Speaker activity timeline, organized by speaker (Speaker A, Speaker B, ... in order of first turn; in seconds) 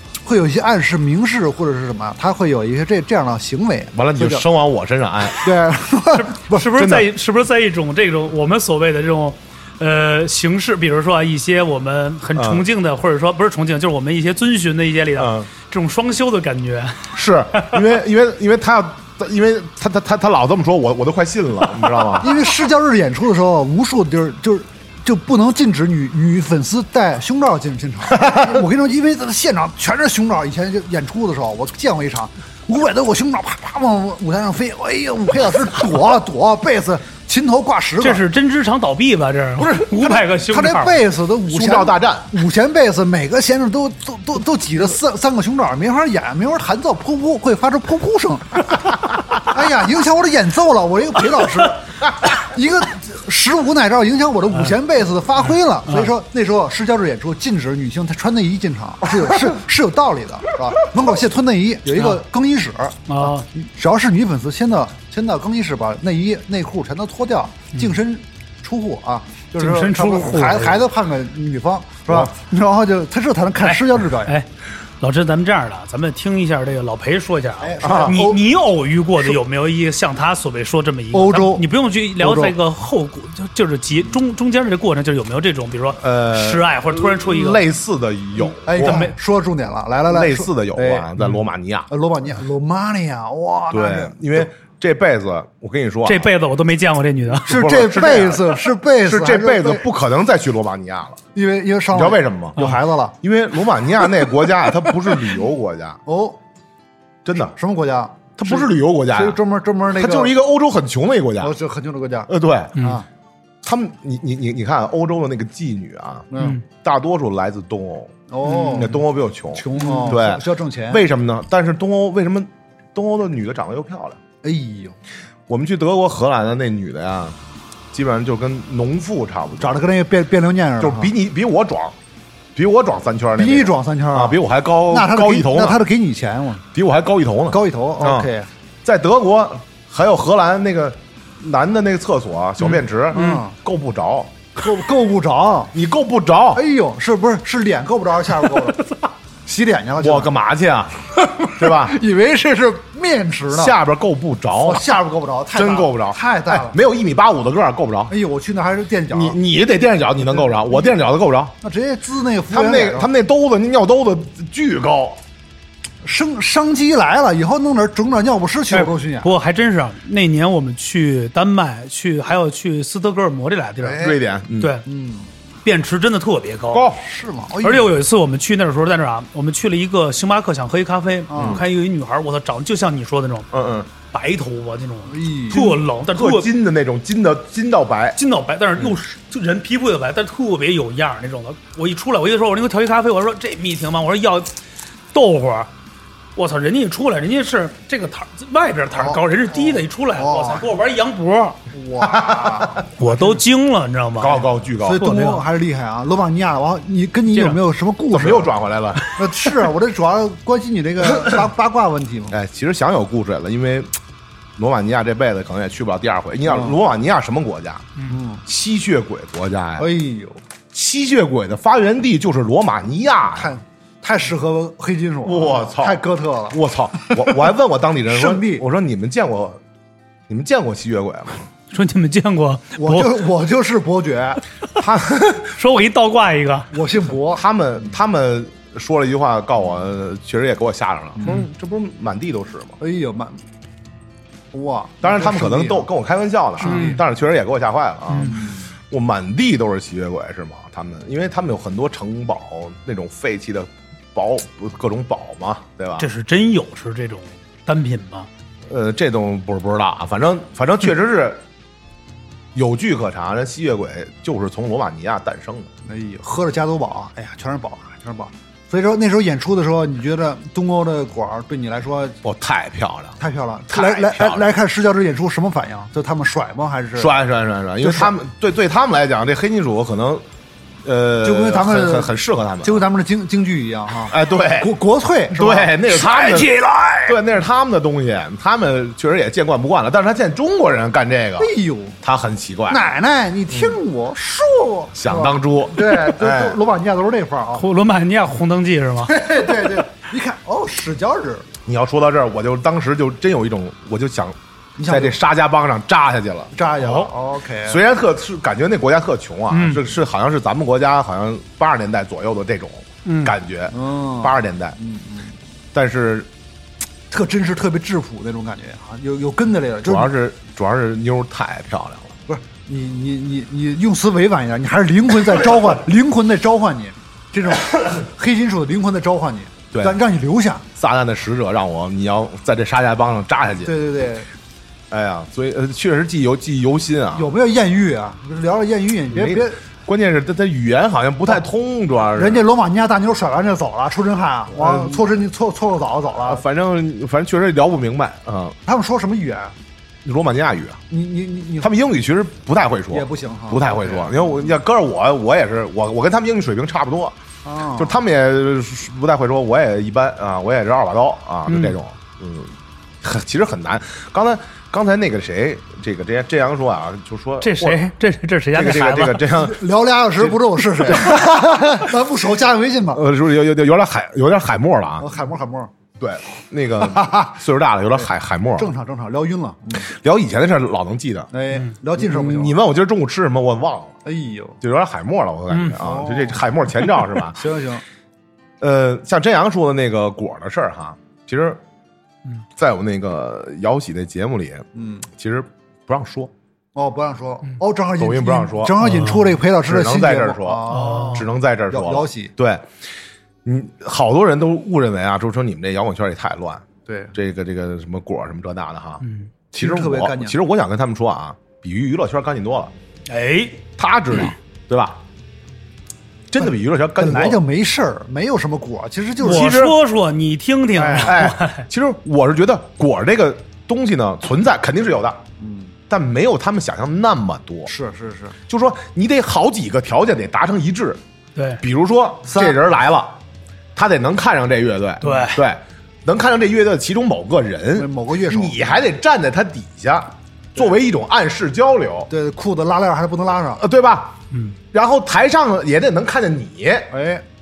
Speaker A: 0.2-4.4, 5.4-6.7, 22.2-38.2, 39.6-74.3, 77.6-78.4, 81.1-81.7, 82.2-82.5, 88.6-91.2, 91.9-94.5, 97.5-99.9, 101.3-103.2, 105.0-105.3, 106.0-106.4, 107.5-110.3, 111.4-113.0, 116.3-116.6, 118.3-121.0, 124.4-125.0, 129.6-131.1, 133.4-134.4, 134.9-136.6, 137.5-138.5, 143.1-143.5, 144.6-145.7, 146.5-148.9, 149.4-150.3, 151.2-153.8, 154.6-156.8, 158.1-159.4, 160.2-161.0, 161.6-163.1, 166.0-169.3, 173.8-174.2, 174.8-175.3, 177.0-177.9, 181.3-181.6, 185.1-185.8, 198.9-200.7, 201.7-203.3, 204.8-208.5, 209.1-212.3, 216.5-216.8, 218.1-218.4, 219.8-220.4, 223.3-227.5, 228.1-228.6, 232.8-234.4, 236.7-237.4, 242.8-243.4, 244.5-245.9, 246.6-247.0, 248.1-248.7, 265.9-272.2, 273.2-277.1, 277.8-278.1, 281.2-287.2, 291.4-292.0, 292.7-297.6, 299.1-301.5, 304.8-305.2, 306.5-307.8, 313.7-315.3, 317.1-320.1, 322.3-330.7, 333.6-334.3, 337.1-339.6, 342.1-346.4, 348.6-349.5, 350.9-351.7, 352.9-354.6, 357.4-358.0, 369.3-373.0, 375.0-375.7, 376.8-377.3, 378.6-379.9, 381.3-382.6, 384.0-384.6, 385.7-386.4, 387.3-387.8, 394.7-395.1, 396.7-402.3, 406.9-407.1, 409.5-410.4, 416.4-419.6, 420.8-421.2, 425.4-425.7, 427.6-428.4, 432.3-432.6, 437.7-438.8, 442.1-443.6, 446.9-447.2
Speaker B: 3.9-5.4, 6.7-7.1, 12.3-12.7, 15.2-15.5, 17.1-22.3, 28.1-28.6, 41.5-42.3, 77.8-78.2, 86.0-89.1, 90.1-91.9, 93.7-96.3, 97.5-101.2, 101.9-102.6, 103.2-106.0, 107.2-107.5, 108.4-109.4, 109.9-111.5, 112.3-112.8, 113.6-118.1, 118.7-124.2, 125.5-127.4, 127.9-129.8, 130.8-131.9, 132.6-135.8, 136.7-138.3, 138.8-144.3, 145.7-146.6, 150.0-152.0, 153.5-154.9, 155.5-158.1, 159.1-161.5, 162.5-165.2, 174.0-174.7, 176.7-177.0, 181.4-181.6, 183.5-183.9, 186.1-188.2, 202.0-202.8, 204.2-205.0, 208.1-209.0, 211.1-211.4, 212.3-213.9, 214.6-217.9, 218.4-219.9, 220.7-223.6, 225.2-229.6, 230.3-231.4, 234.8-235.6, 237.3-242.8, 245.0-256.1, 258.7-261.4, 262.5-265.7, 272.2-273.1, 273.7-274.5, 276.9-280.2, 280.8-282.8, 284.1-284.7, 285.3-286.5, 287.1-291.5, 292.0-292.8, 293.5-293.8, 294.9-296.6, 301.6-306.5, 307.6-314.8, 315.7-316.3, 319.8-322.2, 329.7-330.0, 330.8-333.7, 334.9-337.3, 339.1-342.4, 344.5-345.0, 346.2-348.6, 350.0-350.8, 351.6-357.1, 357.7-367.8, 368.5-369.6, 370.2-371.9, 372.9-375.1, 376.0-378.7, 379.8-381.3, 381.9-383.9, 384.6-387.4, 388.6-391.6, 392.6-396.3, 398.0-398.8, 399.6-402.7, 403.4-409.0, 409.5-412.7, 413.8-415.0, 416.3-417.4, 419.2-419.8, 420.9-425.2, 425.9-427.7, 428.5-431.0, 431.6-433.2, 433.7-442.1, 443.6-444.2, 444.7-446.9
Speaker C: 6.1-17.8, 38.0-41.0, 55.9-56.1, 63.1-63.4, 69.6-70.8, 73.6-74.5, 75.0-87.6, 88.8-89.1, 96.0-97.8, 112.8-113.0, 116.3-116.6, 118.5-118.9, 119.8-120.2, 143.1-143.4, 168.7-174.1, 174.6-174.8, 175.6-176.8, 177.6-183.5, 184.1-186.5, 188.2-194.5, 195.1-195.7, 196.3-201.6, 203.0-205.4, 207.3-207.6, 231.7-233.2, 235.5-236.7, 246.6-247.0, 248.1-248.5, 256.0-258.3, 297.5-299.2, 306.8-307.1, 309.5-309.8, 313.0-313.3, 361.5-361.8, 367.4-369.2, 385.5-385.8, 398.8-399.3, 400.7-401.2, 409.0-409.3, 413.1-413.6, 419.2-421.6, 431.4-431.6, 435.0-435.4, 444.3-444.6